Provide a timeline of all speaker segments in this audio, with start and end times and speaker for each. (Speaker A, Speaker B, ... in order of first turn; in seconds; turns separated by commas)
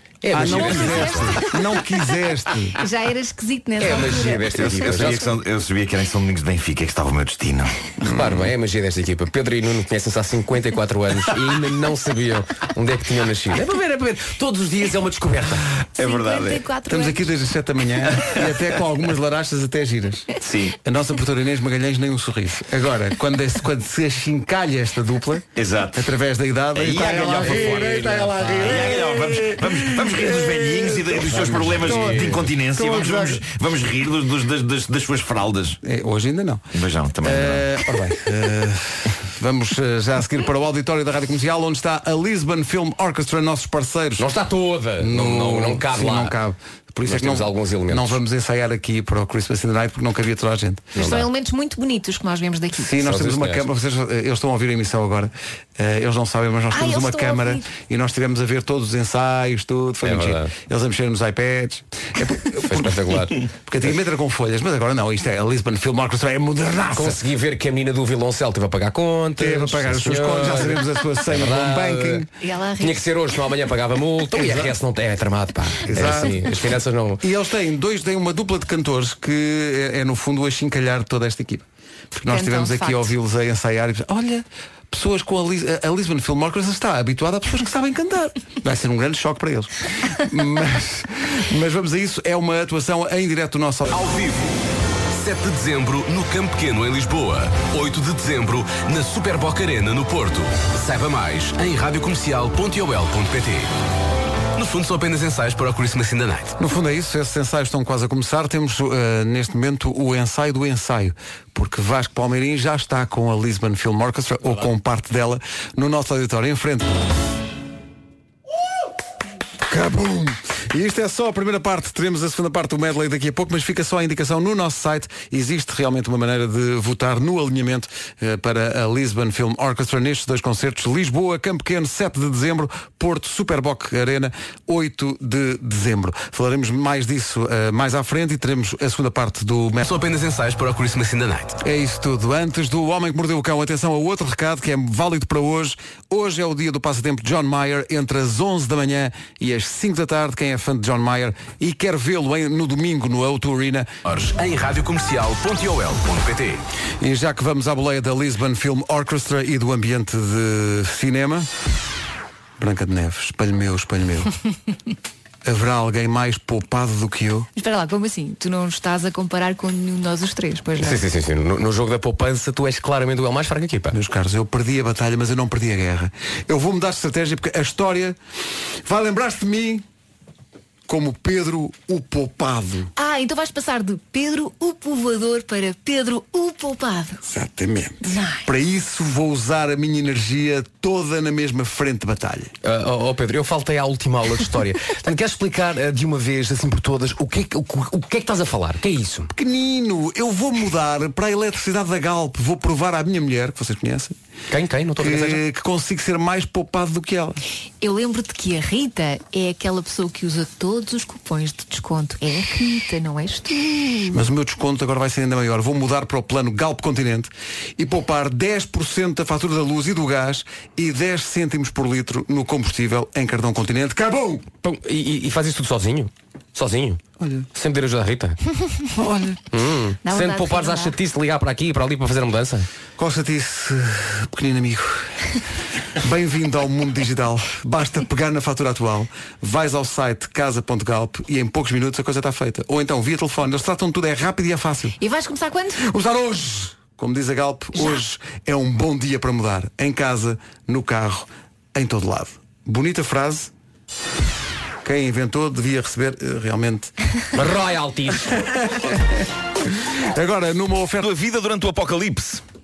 Speaker A: 0.2-1.5, Speaker B: 0.3-2.8, Speaker C: 0.7-1.5, Speaker C: 2.8-4.9, Speaker A: 3.8-5.3, Speaker D: 4.5-7.9, Speaker A: 8.0-15.7, Speaker B: 8.1-8.4, Speaker D: 15.9-16.6, Speaker C: 16.0-17.3, Speaker B: 16.9-33.4, Speaker D: 20.4-20.8, Speaker D: 25.6-26.1, Speaker D: 26.7-35.8, Speaker A: 26.9-29.1, Speaker A: 31.3-32.5, Speaker B: 35.8-36.7, Speaker D: 36.7-37.8, Speaker B: 37.2-44.3, Speaker A: 44.2-46.3, Speaker B: 45.0-51.0, Speaker A: 47.1-48.2, Speaker C: 51.0-53.0, Speaker A: 51.0-51.3, Speaker B: 52.8-67.2, Speaker A: 53.0-53.6, Speaker C: 56.7-57.7, Speaker A: 60.0-60.5, Speaker A: 62.6-63.4, Speaker A: 67.0-72.3, Speaker B: 69.4-72.3, Speaker C: 72.4-73.0, Speaker A: 72.8-77.2, Speaker B: 74.3-74.7, Speaker B: 75.9-94.0, Speaker C: 82.3-83.1, Speaker E: 93.9-94.6, Speaker E: 95.2-103.7, Speaker E: 104.6-106.5, Speaker B: 106.6-117.0, Speaker B: 119.7-139.9, Speaker E: 139.8-141.6, Speaker B: 141.6-153.9, Speaker E: 154.1-156.6, Speaker B: 157.0-161.5, Speaker B: 162.6-164.3, Speaker B: 165.4-167.5, Speaker C: 167.6-171.0, Speaker A: 170.8-174.0, Speaker B: 173.9-178.2, Speaker B: 178.8-179.8, Speaker B: 180.9-182.9, Speaker C: 183.0-187.2, Speaker B: 187.3-192.5, Speaker C: 188.0-188.5, Speaker A: 192.6-199.3, Speaker B: 199.3-204.2, Speaker A: 204.5-205.4, Speaker B: 205.0-207.4, Speaker C: 207.8-214.1, Speaker B: 214.1-224.5, Speaker A: 224.6-227.0, Speaker B: 227.2-227.5, Speaker A: 227.5-228.4, Speaker B: 228.9-229.4, Speaker A: 229.5-232.7, Speaker C: 230.1-231.0, Speaker B: 233.0-235.1, Speaker B: 236.0-245.0, Speaker C: 245.0-245.9, Speaker B: 245.8-253.5, Speaker B: 254.8-256.9, Speaker A: 257.3-258.4, Speaker B: 258.3-259.2, Speaker B: 259.9-261.1, Speaker D: 261.0-262.4